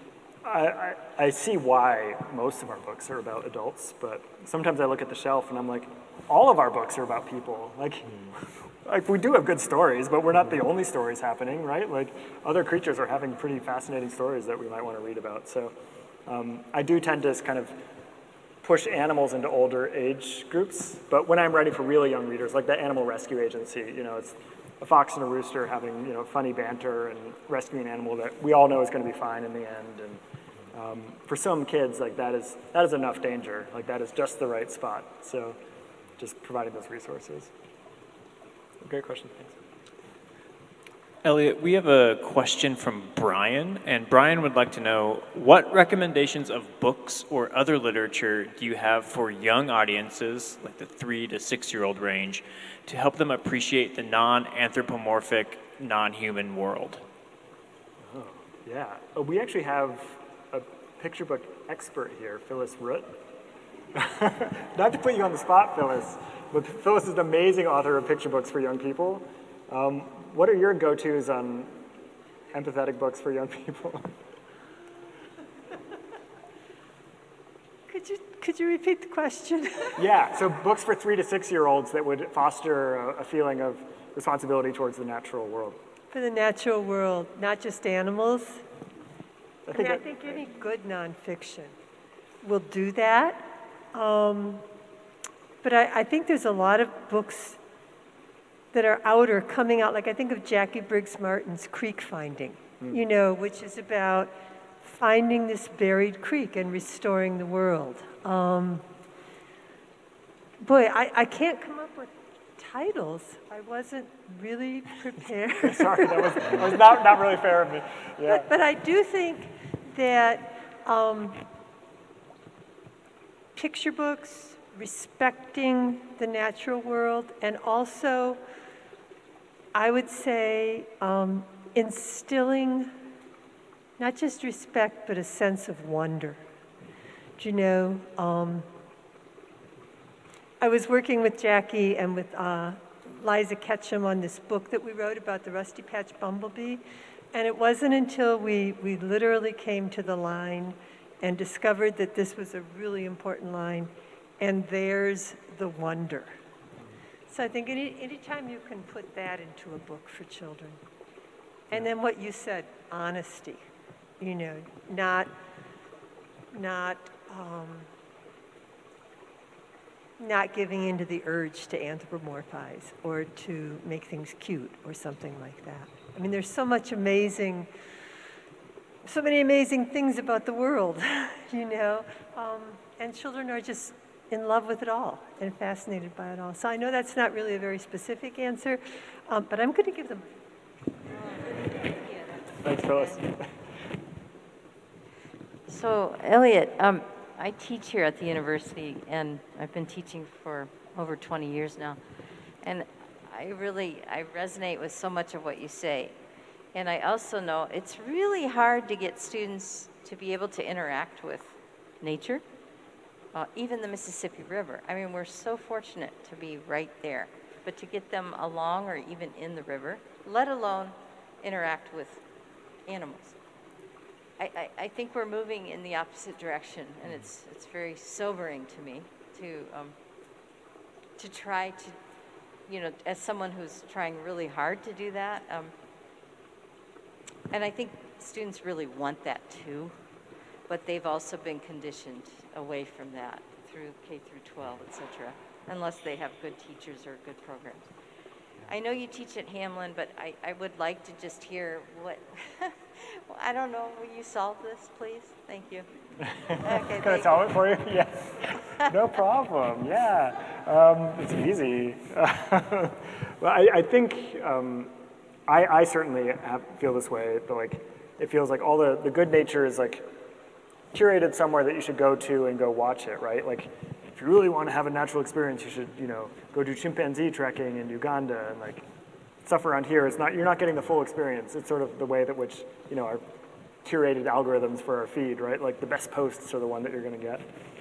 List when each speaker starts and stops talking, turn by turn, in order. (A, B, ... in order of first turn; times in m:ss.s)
0:00.4-0:15.7 A
0:16.3-0:17.8 A
0:18.6-0:30.2 A
0:30.7-0:35.6 A
0:36.2-0:37.5 A
0:38.8-0:39.6 A
0:41.2-0:57.0 B
0:58.0-1:03.1 A
1:03.9-1:11.8 A
1:12.5-1:14.1 A
1:17.9-1:20.0 C
1:20.0-1:25.8 A
1:26.1-1:28.6 C
1:29.7-1:30.3 A
1:29.7-1:31.7 C
1:32.4-1:34.6 C
1:35.6-1:37.6 C
1:38.7-1:48.8 C
1:50.6-1:57.2 C
1:55.6-1:58.5 A
1:58.2-2:01.4 C
2:03.5-2:08.4 C
2:09.7-2:12.9 C
2:14.0-2:16.4 C
2:17.4-2:18.6 C
2:20.6-2:36.3 C
2:37.3-2:40.8 C
2:41.7-2:43.6 C
2:44.2-2:45.3 C
2:46.5-2:47.9 C
2:50.2-2:57.7 C
2:59.0-3:10.2 C
3:11.4-3:13.2 D
3:12.6-3:13.5 A
3:15.7-3:22.0 D
3:22.6-3:26.1 D
3:26.7-3:32.4 D
3:33.3-3:42.2 D
3:42.8-3:43.4 D
3:44.4-3:49.9 D
3:51.2-3:52.0 D
3:52.7-3:55.7 D
3:57.5-3:59.9 D
4:00.7-4:07.9 D
4:08.6-4:15.8 D
4:16.2-4:24.9 A
4:16.5-4:17.7 D
4:25.5-4:30.0 A
4:30.9-4:38.8 A
4:39.4-4:43.2 A
4:43.8-4:47.4 A